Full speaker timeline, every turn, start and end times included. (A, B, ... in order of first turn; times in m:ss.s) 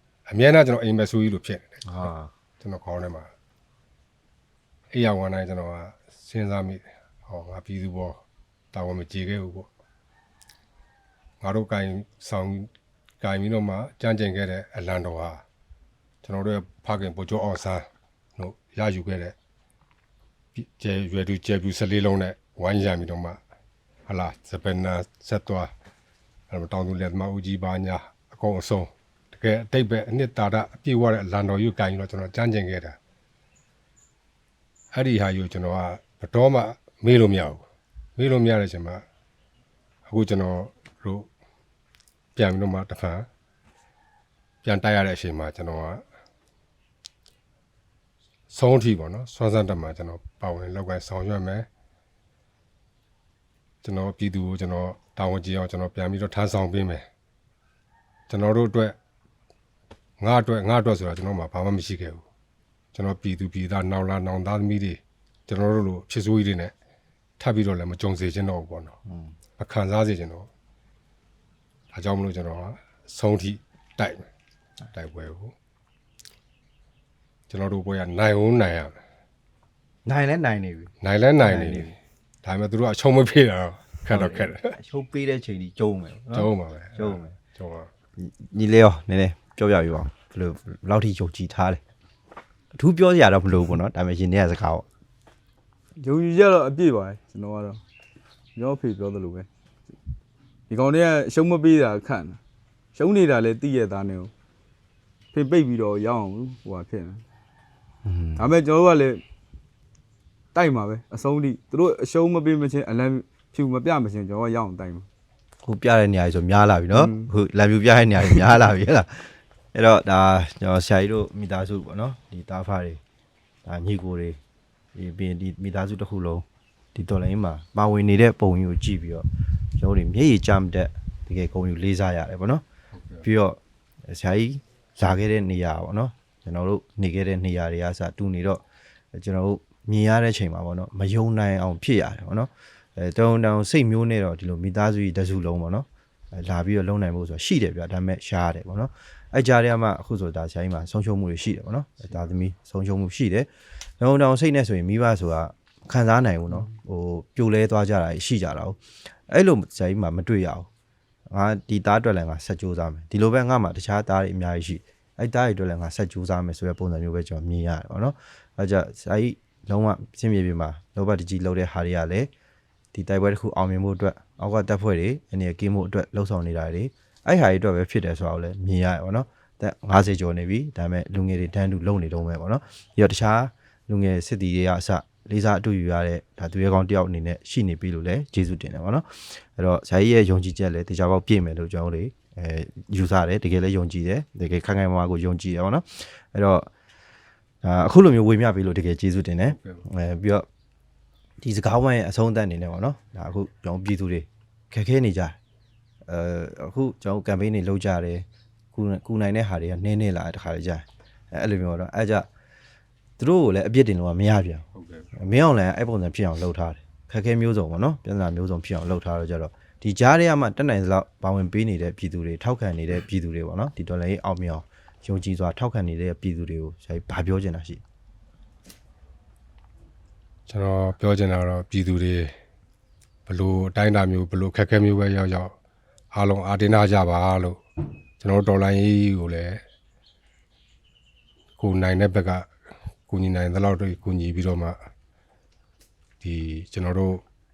0:00.3-0:01.8 A
0:01.8-0:02.3 B
0:02.6-0:03.3 A
0:04.9-0:08.2 A
0:08.7-0:09.7 A
0:11.4-0:12.7 A
0:13.2-0:15.4 A
0:16.2-0:19.4 A
0:20.6-0:23.4 A
0:24.1-0:25.7 A
0:26.5-0:33.0 A
0:34.9-0:37.6 A
0:38.2-0:39.0 A
0:40.1-0:41.3 A
0:42.4-0:43.3 A
0:44.6-0:46.0 A
0:48.5-0:51.7 A
0:53.8-0:57.0 A
0:58.3-0:59.0 A
1:00.2-1:02.2 A
1:02.9-1:06.7 A
1:07.4-1:09.0 A
1:09.0-1:09.3 B
1:09.6-1:10.5 A
1:11.9-1:14.3 A
1:14.9-1:15.5 A
1:17.5-1:19.0 A
1:20.0-1:21.9 B
1:21.0-1:21.9 A
1:22.4-1:24.8 A
1:24.1-1:27.3 B
1:26.3-1:27.9 A
1:28.2-1:31.8 B
1:32.7-1:34.9 B
1:36.0-1:37.8 C
1:38.6-1:39.5 C
1:40.7-1:42.4 C
1:43.0-1:44.3 C
1:45.3-1:47.2 C
1:48.0-1:48.4 B
1:48.4-1:49.2 C
1:50.5-1:55.1 C
1:55.6-2:03.0 B
1:56.9-1:57.3 C
2:03.6-2:04.4 B
2:04.9-2:09.3 B
2:09.8-2:12.6 B
2:12.9-2:13.2 A
2:13.2-2:18.6 B
2:19.1-2:33.5 B
2:34.0-2:40.7 B
2:41.3-2:52.3 B
2:52.9-3:16.7 B
3:17.6-3:20.5 B
3:19.6-3:19.8 A
3:21.4-3:25.4 B
3:26.1-3:32.3 B
3:33.2-3:47.8 B
3:34.8-3:35.0 A
3:50.5-3:52.3 A
3:53.3-3:55.5 A
3:56.1-3:57.6 A
3:58.2-3:59.6 A
4:01.6-4:02.5 A
4:03.1-4:04.8 A
4:06.2-4:07.2 A